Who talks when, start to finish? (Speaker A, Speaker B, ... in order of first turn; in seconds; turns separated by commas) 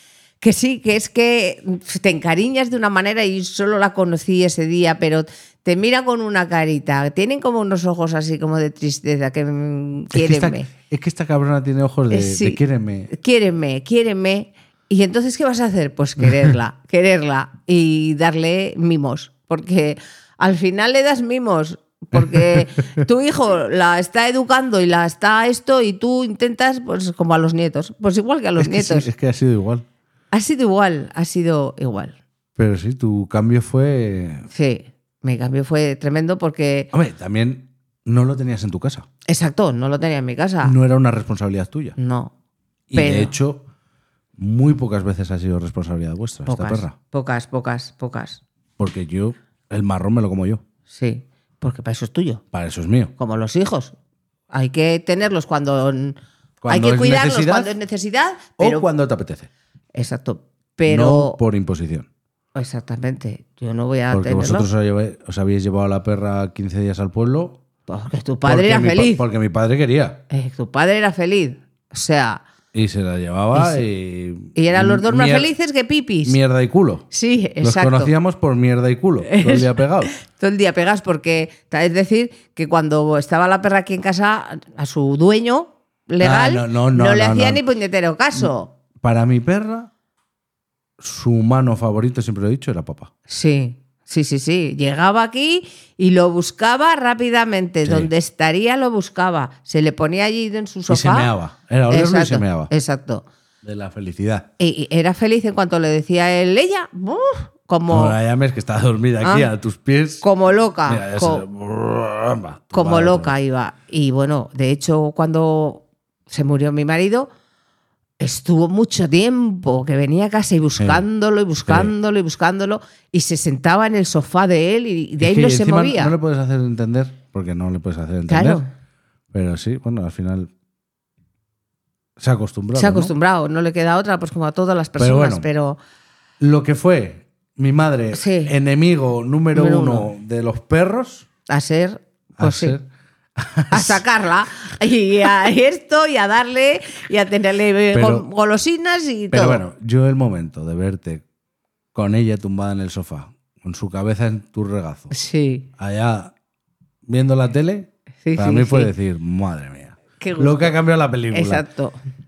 Speaker A: 0.4-10.7, Speaker B: 10.1-13.1, Speaker A: 12.1-29.1, Speaker B: 22.1-23.0, Speaker B: 28.6-29.8, Speaker A: 30.3-32.2, Speaker B: 32.6-34.5, Speaker A: 34.5-36.9, Speaker B: 36.9-39.1, Speaker A: 39.3-40.8, Speaker B: 40.6-42.0, Speaker A: 42.0-42.3, Speaker B: 42.9-43.6, Speaker A: 42.9-43.3, Speaker B: 44.4-46.9, Speaker A: 46.5-48.4, Speaker B: 48.8-50.6, Speaker A: 50.9-52.4, Speaker B: 52.5-53.1, Speaker A: 53.2-54.0, Speaker A: 54.5-58.9, Speaker B: 56.6-57.7, Speaker B: 58.6-59.5, Speaker A: 59.9-61.4, Speaker B: 60.9-62.1, Speaker A: 62.5-64.7, Speaker B: 64.1-67.6, Speaker A: 67.9-69.2, Speaker B: 68.4-70.2, Speaker A: 70.3-72.4, Speaker B: 72.7-75.5, Speaker A: 73.5-73.8, Speaker A: 74.5-76.4, Speaker B: 76.2-77.1, Speaker A: 77.1-78.1, Speaker B: 77.6-80.1, Speaker A: 79.2-88.7, Speaker B: 86.2-87.6, Speaker B: 88.3-89.9, Speaker B: 91.0-93.1, Speaker A: 93.3-101.3, Speaker B: 97.8-98.1, Speaker B: 100.9-102.7, Speaker A: 101.9-103.2, Speaker B: 103.6-104.5, Speaker A: 104.6-108.2, Speaker B: 107.9-110.3, Speaker A: 109.2-109.5, Speaker A: 110.2-111.4, Speaker B: 110.8-113.3, Speaker A: 112.7-117.3, Speaker A: 118.2-126.1, Speaker B: 120.8-121.0, Speaker B: 121.7-121.9, Speaker B: 125.2-128.6, Speaker A: 128.3-128.7, Speaker B: 129.3-130.5, Speaker B: 132.2-133.1, Speaker A: 132.7-135.8, Speaker B: 135.0-135.5, Speaker B: 136.4-141.3, Speaker A: 138.1-138.5, Speaker A: 139.5-140.1, Speaker A: 141.5-142.8, Speaker B: 142.4-142.8, Speaker B: 143.3-144.0, Speaker A: 143.7-149.6, Speaker B: 147.9-148.2, Speaker B: 149.3-151.2, Speaker B: 151.9-155.1, Speaker A: 155.1-155.7, Speaker B: 155.8-156.3, Speaker B: 157.1-161.7, Speaker A: 158.2-158.9, Speaker A: 160.2-160.8, Speaker A: 161.3-162.0